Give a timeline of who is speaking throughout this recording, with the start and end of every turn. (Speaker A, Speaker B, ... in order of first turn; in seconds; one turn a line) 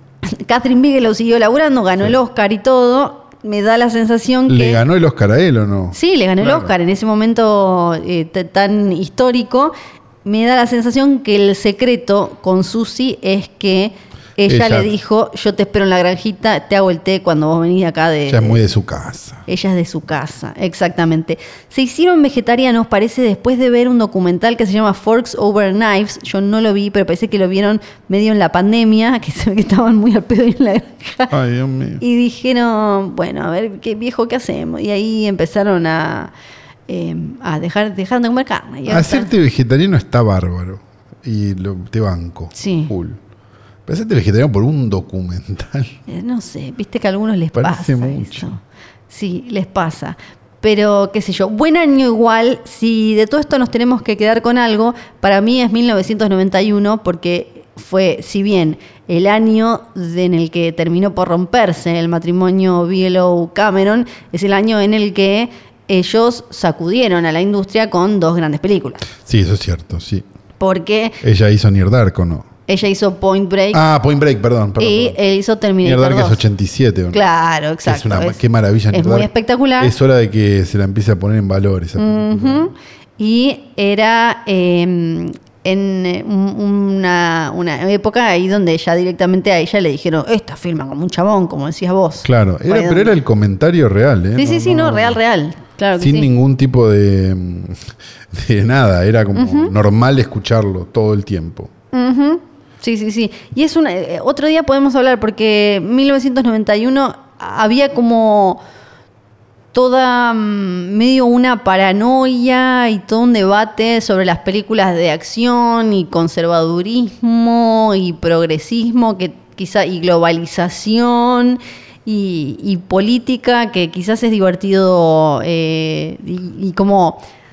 Speaker A: 0.2-4.8
Speaker B: 4.5-6.7
Speaker A: 5.9-9.7
Speaker A: 10.2-18.6
Speaker B: 14.5-14.9
Speaker B: 18.3-19.4
Speaker A: 19.5-31.4
Speaker B: 31.3-32.0
Speaker A: 32.0-36.3
Speaker A: 36.9-39.3
Speaker B: 38.9-43.2
Speaker A: 42.5-42.9
Speaker B: 43.9-46.0
Speaker A: 46.1-69.1
Speaker B: 47.5-48.5
Speaker B: 69.2-70.3
Speaker A: 70.6-71.2
Speaker B: 71.2-72.5
Speaker A: 72.7-73.8
Speaker B: 73.7-75.2
Speaker A: 74.8-76.4
Speaker B: 75.8-77.2
Speaker A: 77.1-78.4
Speaker B: 77.8-82.7
Speaker A: 78.9-79.9
Speaker A: 82.0-93.1
Speaker B: 92.2-95.2
Speaker A: 94.3-96.3
Speaker B: 96.0-101.7
Speaker A: 99.3-99.7
Speaker A: 101.9-108.6
Speaker A: 109.7-127.2